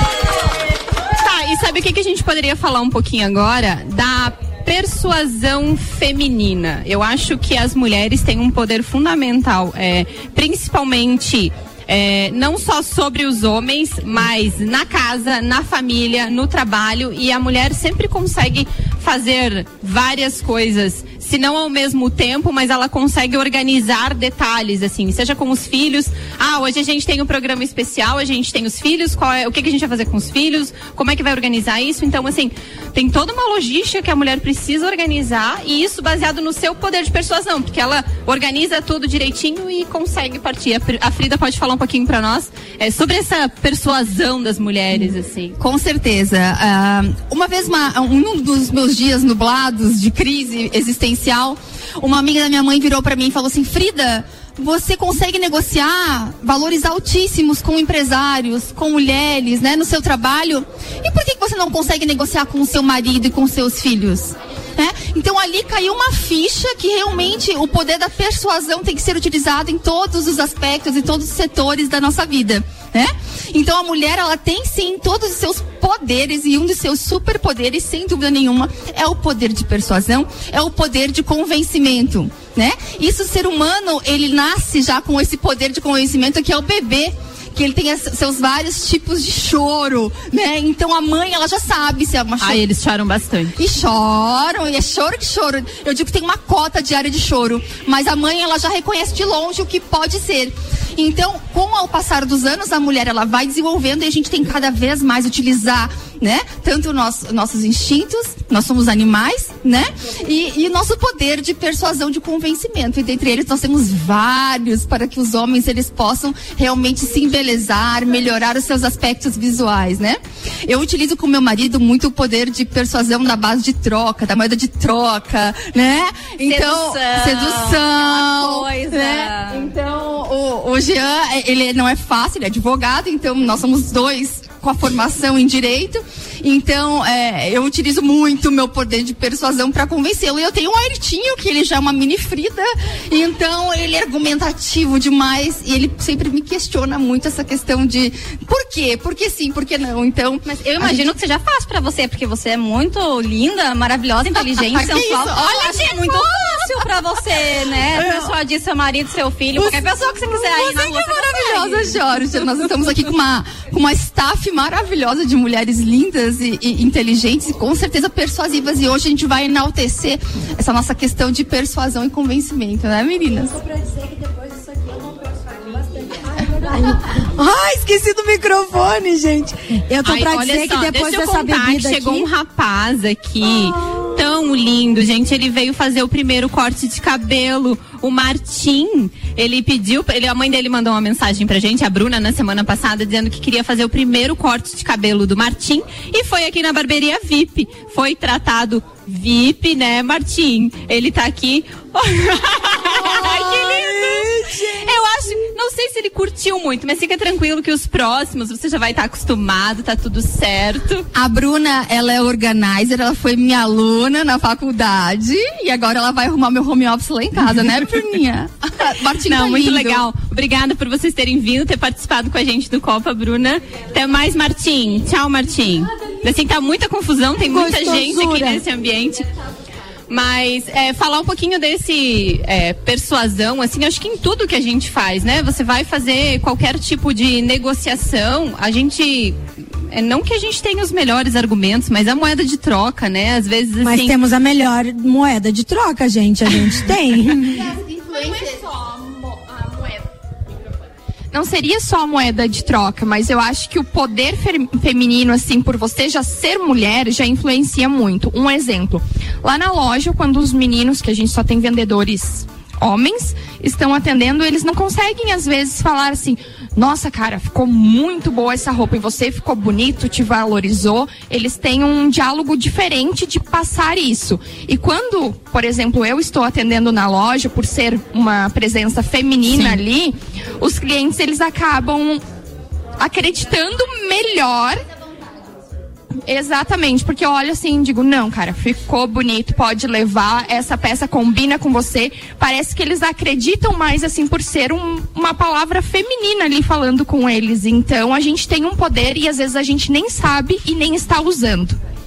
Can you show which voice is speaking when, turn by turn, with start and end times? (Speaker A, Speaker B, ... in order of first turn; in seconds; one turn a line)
Speaker A: 1.1-45.6
Speaker B: 45.6-92.6
Speaker A: 92.4-93.6
Speaker B: 93.6-151.1
Speaker C: 126.4-129.7
Speaker C: 150.4-162.0
Speaker B: 154.3-156.8
Speaker B: 157.9-158.3
Speaker B: 159.6-173.6
Speaker D: 176.5-182.3
Speaker A: 180.0-211.1
Speaker D: 203.0-204.8
Speaker B: 211.1-220.1
Speaker A: 219.3-229.3
Speaker D: 227.4-228.6
Speaker A: 230.1-244.2
Speaker D: 243.8-247.6
Speaker B: 247.6-248.8
Speaker E: 251.3-282.2
Speaker A: 279.5-279.8
Speaker E: 283.0-284.8
Speaker E: 286.3-301.8